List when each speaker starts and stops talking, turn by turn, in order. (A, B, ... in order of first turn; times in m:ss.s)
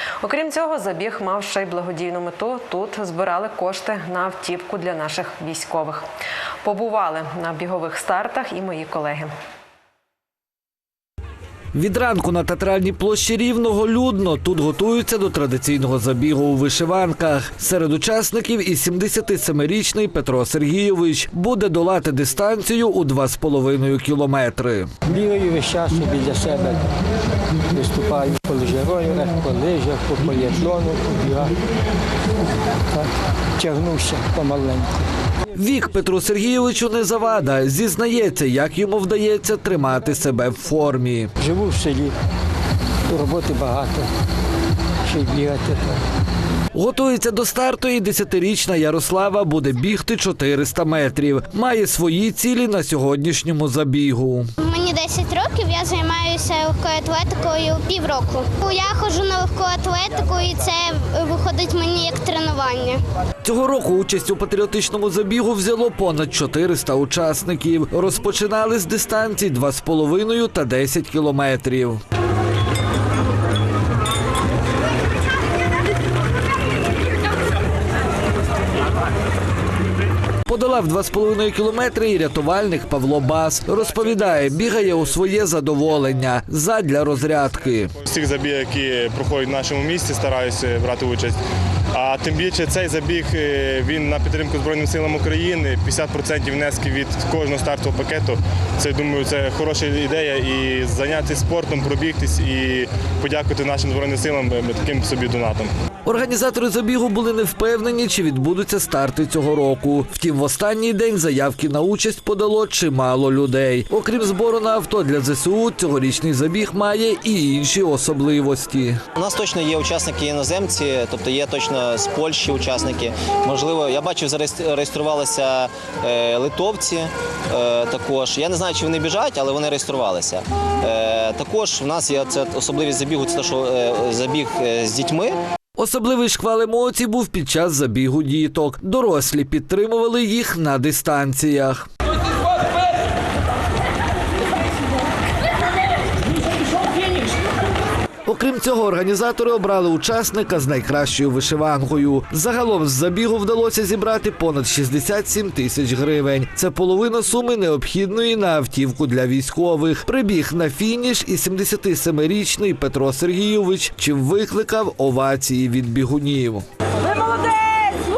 0:00.2-0:06.0 A
0:06.6-0:09.3 A
0:11.7-0:24.9 B
0:25.0-0:26.9 C
0:27.7-0:31.6 C
0:32.9-0:35.1 C
0:35.5-0:41.3 B
0:41.4-0:42.1 C
0:43.1-0:44.1 C
0:45.0-0:46.0 C
0:46.7-0:54.5 B
0:54.6-1:03.0 D
1:03.4-1:12.0 B
1:20.4-1:27.9 B
1:28.0-1:31.4 E
1:31.9-1:45.7 E
1:46.0-1:59.0 B
1:59.2-2:15.4 F
2:15.8-2:21.9 B
2:28.2-2:46.6 B